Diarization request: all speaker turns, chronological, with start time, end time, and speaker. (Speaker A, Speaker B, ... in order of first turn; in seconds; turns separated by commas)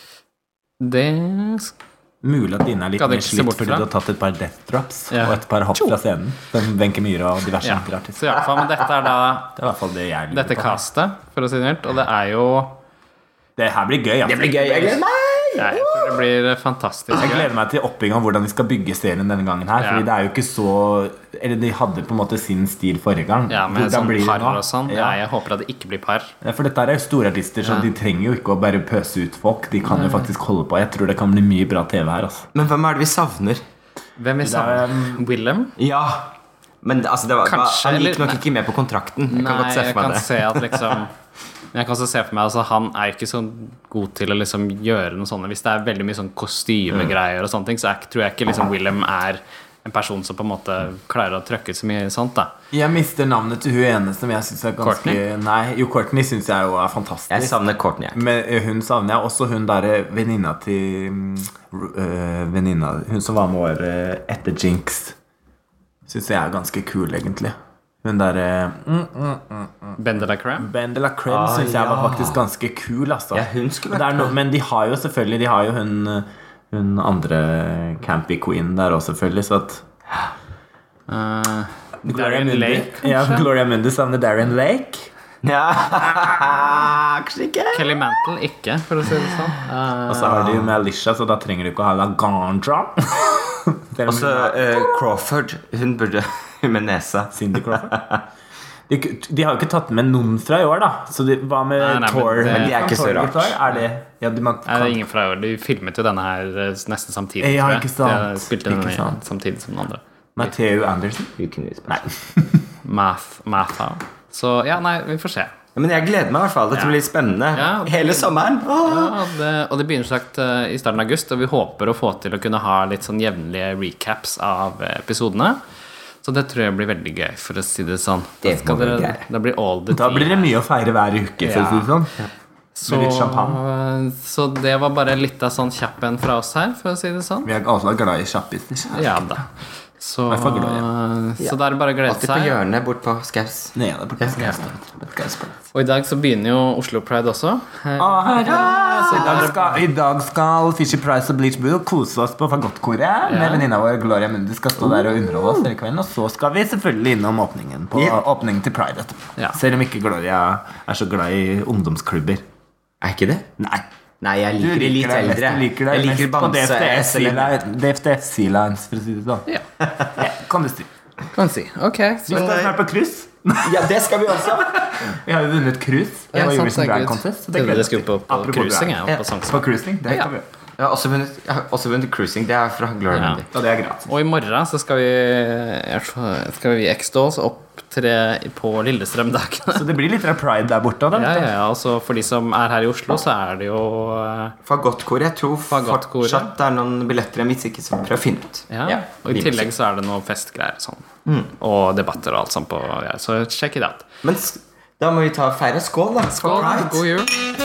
Speaker A: 0.8-1.7, Speaker B: 2.2-8.3, Speaker A: 3.0-3.9, Speaker A: 5.1-6.0, Speaker A: 7.6-9.6, Speaker B: 9.5-10.8, Speaker A: 10.3-12.8, Speaker B: 13.6-15.0, Speaker C: 14.2-16.2, Speaker A: 15.6-17.5, Speaker B: 17.1-25.2, Speaker A: 19.8-20.1, Speaker A: 23.5-26.3, Speaker B: 26.4-32.5, Speaker A: 27.6-27.9, Speaker A: 29.8-30.3, Speaker C: 32.5-33.6, Speaker A: 34.2-35.7, Speaker B: 34.4-35.2, Speaker C: 35.8-41.0, Speaker A: 37.4-38.4, Speaker A: 39.3-41.1, Speaker A: 41.7-52.5, Speaker B: 52.7-57.6, Speaker A: 54.8-55.2, Speaker C: 57.3-58.2, Speaker B: 58.1-65.2, Speaker B: 66.1-70.0, Speaker A: 70.0-70.7, Speaker B: 70.6-79.8, Speaker C: 71.2-72.4, Speaker C: 73.3-74.3, Speaker A: 81.1-83.5, Speaker B: 82.0-85.1, Speaker C: 85.4-88.0, Speaker A: 87.7-90.4, Speaker B: 90.1-95.0, Speaker C: 90.2-90.8, Speaker C: 94.0-98.2, Speaker B: 97.3-97.9, Speaker B: 98.9-105.0, Speaker A: 101.8-103.0, Speaker C: 102.5-103.6, Speaker A: 104.7-110.5, Speaker B: 107.4-109.2, Speaker B: 110.3-111.3, Speaker C: 111.4-112.1, Speaker B: 111.9-112.6, Speaker A: 112.8-115.5, Speaker C: 115.8-119.3, Speaker A: 117.5-125.6, Speaker A: 126.2-130.6, Speaker C: 128.4-129.2, Speaker B: 129.9-132.1, Speaker A: 131.4-131.9, Speaker A: 132.8-137.5, Speaker B: 132.8-133.6, Speaker B: 137.4-139.2, Speaker A: 138.9-139.4, Speaker A: 140.0-142.6, Speaker B: 140.3-140.9, Speaker C: 141.4-144.4, Speaker B: 143.8-145.5, Speaker A: 145.7-149.8, Speaker B: 148.0-162.4, Speaker C: 148.7-149.4, Speaker A: 153.2-153.7, Speaker C: 155.0-155.6, Speaker C: 157.9-158.2, Speaker C: 163.0-163.5, Speaker B: 163.6-163.8, Speaker C: 164.2-167.6, Speaker B: 164.6-169.5, Speaker B: 170.1-170.9, Speaker A: 171.3-172.5, Speaker B: 172.3-173.9, Speaker C: 172.3-172.7, Speaker C: 173.6-175.2, Speaker B: 174.4-180.5, Speaker A: 176.3-180.3, Speaker C: 180.8-183.5, Speaker A: 183.1-183.4, Speaker B: 183.5-184.1, Speaker A: 184.1-189.9, Speaker B: 189.7-191.5, Speaker A: 191.1-194.6, Speaker C: 194.7-199.7, Speaker A: 195.7-196.5, Speaker A: 198.7-201.0, Speaker C: 201.2-201.5, Speaker A: 201.6-204.1, Speaker C: 204.2-207.2, Speaker A: 206.3-207.4